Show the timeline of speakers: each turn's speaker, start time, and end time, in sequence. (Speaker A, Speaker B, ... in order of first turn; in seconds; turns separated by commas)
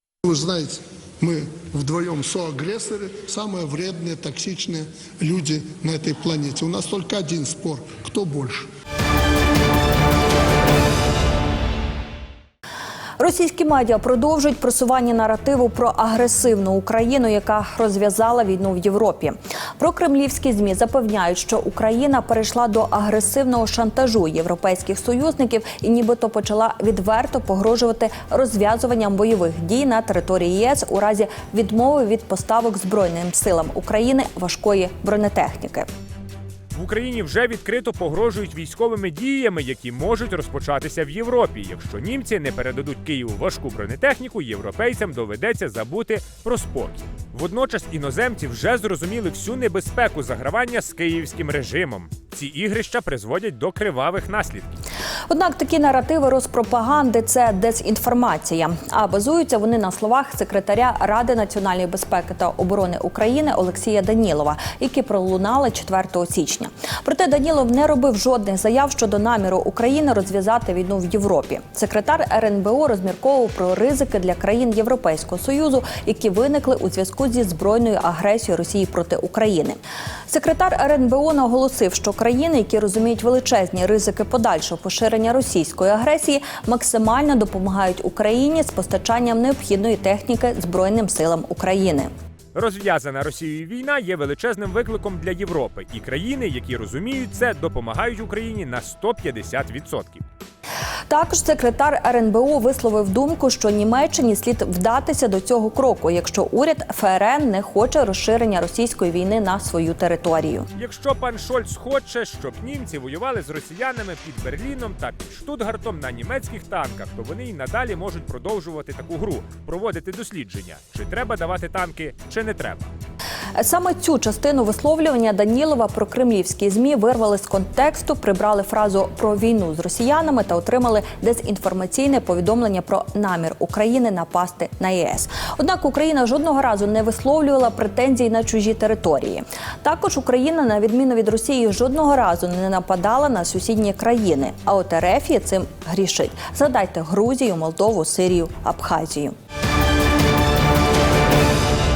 Speaker A: 0.3-8.7, Speaker B: 13.2-35.9, Speaker C: 36.7-54.7, Speaker B: 55.3-92.1, Speaker C: 92.5-100.2, Speaker B: 101.1-110.7, Speaker C: 110.8-122.9, Speaker B: 123.6-149.3